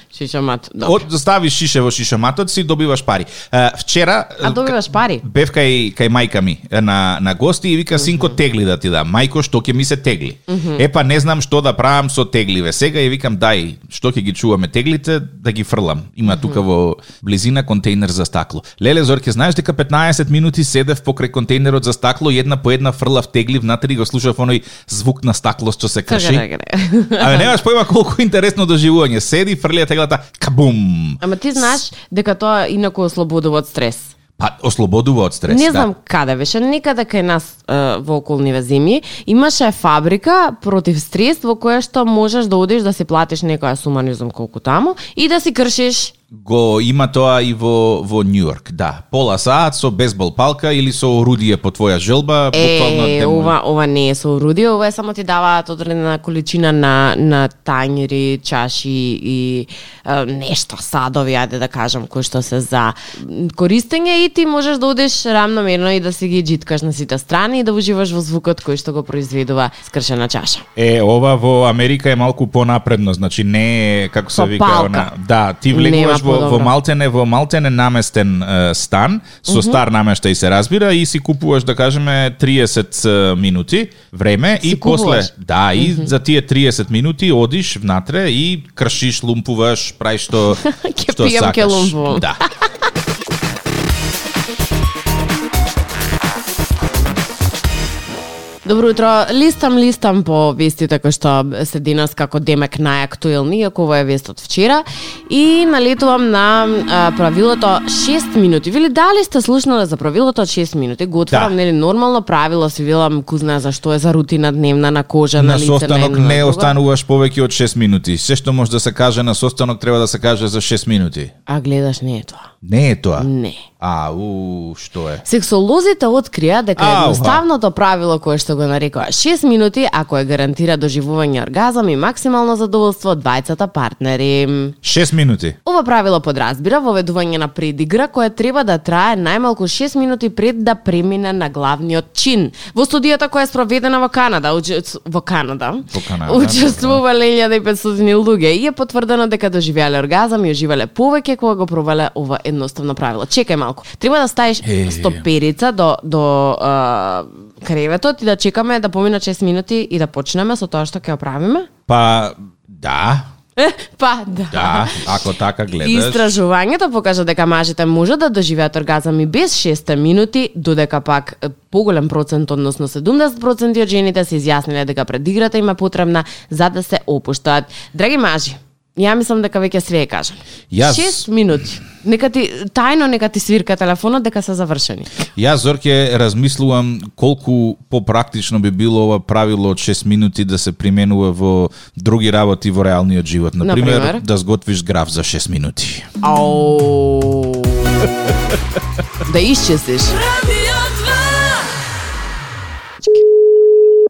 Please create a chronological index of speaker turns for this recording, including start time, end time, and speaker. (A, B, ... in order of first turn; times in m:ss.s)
0:00.1-0:01.0 A
0:00.8-0:26.4 B
0:04.4-0:05.2 A
0:08.0-0:08.3 A
0:10.5-0:10.8 A
0:26.1-0:27.5 A
0:27.2-0:31.2 B
0:31.2-0:34.1 A
0:34.4-0:35.9 B
0:35.5-0:46.1 A
0:46.3-0:53.5 B
0:52.5-1:10.6 A
1:10.8-1:32.4 B
1:14.3-1:15.1 A
1:15.7-1:16.7 A
1:19.4-1:19.8 A
1:24.6-1:26.1 A
1:30.6-1:32.5 A
1:38.6-1:56.8 A
1:51.3-1:51.5 B
1:55.4-2:01.3 B
2:01.5-2:02.5 A
2:02.6-2:03.3 B
2:03.2-2:03.6 A
2:03.8-2:05.2 B
2:05.2-2:14.8 A
2:06.8-2:07.4 B
2:14.8-2:15.6 B
2:15.6-2:41.7 A
2:25.9-2:27.0 B
2:34.6-2:35.2 B
2:41.9-2:43.3 B
2:43.6-2:45.1 A
2:44.5-2:46.4 B
2:45.8-3:05.2 A
3:00.7-3:01.2 B
3:05.4-3:16.1 B
3:13.6-3:14.2 A
3:16.2-3:18.0 A
3:19.2-3:21.6 A